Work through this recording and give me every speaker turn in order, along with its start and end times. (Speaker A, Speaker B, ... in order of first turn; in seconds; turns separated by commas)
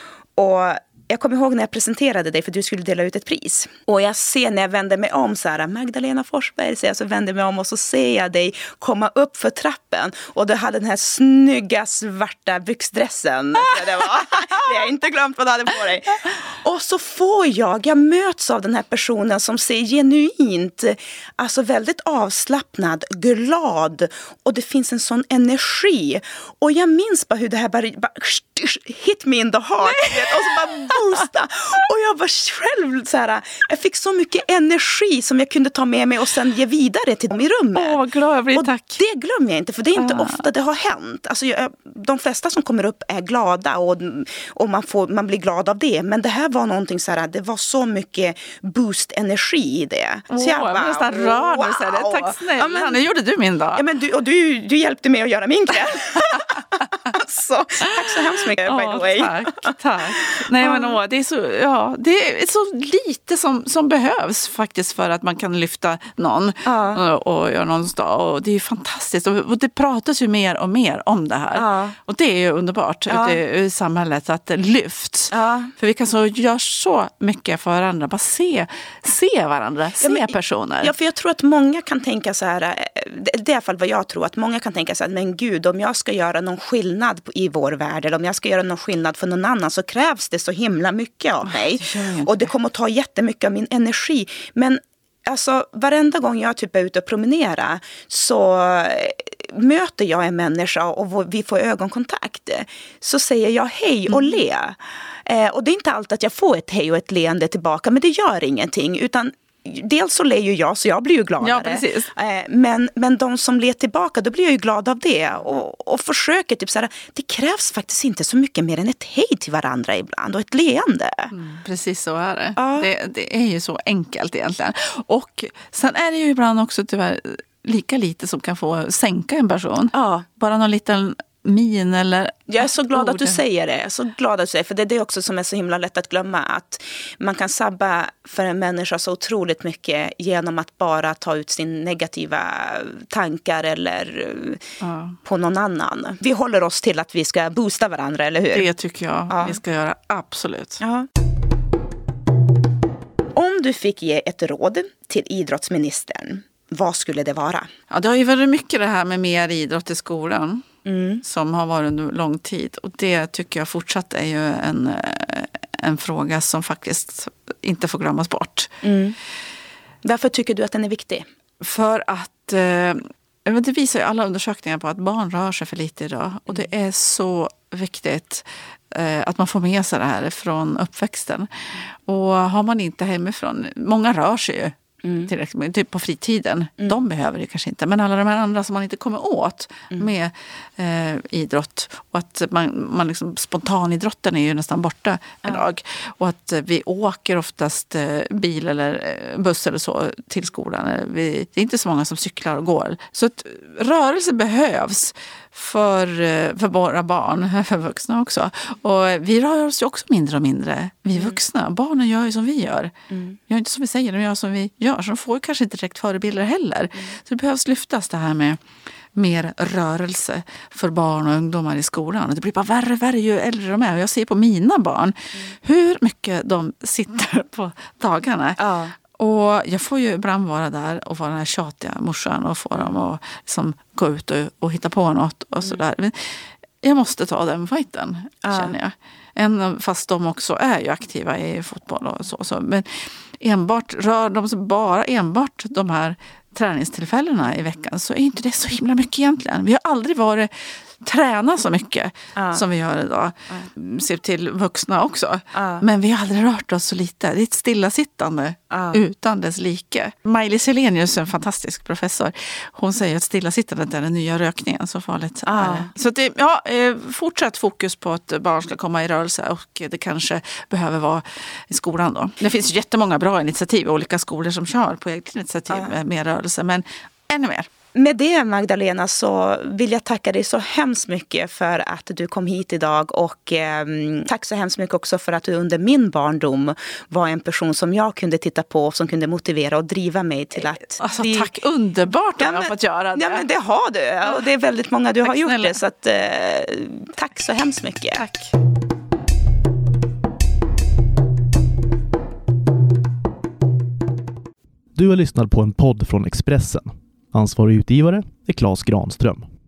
Speaker A: 0.4-38.0, Speaker B: 29.8-31.1, Speaker B: 37.8-39.0, Speaker A: 38.5-53.0, Speaker B: 40.0-40.4, Speaker B: 50.3-53.8, Speaker A: 53.8-61.0, Speaker B: 56.3-56.6, Speaker B: 58.0-80.9, Speaker A: 66.7-67.0, Speaker A: 71.6-72.0, Speaker A: 73.1-73.4, Speaker A: 75.3-75.7, Speaker A: 80.0-121.3, Speaker B: 91.5-92.5, Speaker B: 104.1-104.4, Speaker B: 111.4-112.1, Speaker B: 121.3-133.4, Speaker A: 122.6-122.9, Speaker A: 129.9-130.3, Speaker A: 132.5-144.7, Speaker B: 144.8-145.2, Speaker A: 145.2-148.7, Speaker B: 148.5-150.8, Speaker A: 149.3-149.6, Speaker A: 150.8-151.1, Speaker A: 153.3-157.7, Speaker B: 157.9-160.7, Speaker A: 160.8-161.2, Speaker B: 161.2-168.8, Speaker A: 168.8-169.2, Speaker A: 170.0-171.2, Speaker B: 171.6-212.9, Speaker A: 185.0-185.3, Speaker A: 213.1-213.4, Speaker B: 213.5-218.6, Speaker B: 219.1-277.7, Speaker A: 228.6-228.9, Speaker A: 238.4-238.7, Speaker A: 252.4-252.6, Speaker A: 255.5-255.8, Speaker A: 258.7-259.0, Speaker A: 265.5-265.9, Speaker A: 275.7-276.0, Speaker A: 277.9-291.5, Speaker B: 291.0-293.4, Speaker A: 292.4-298.2, Speaker B: 295.2-295.8, Speaker B: 298.2-298.5, Speaker C: 304.9-309.4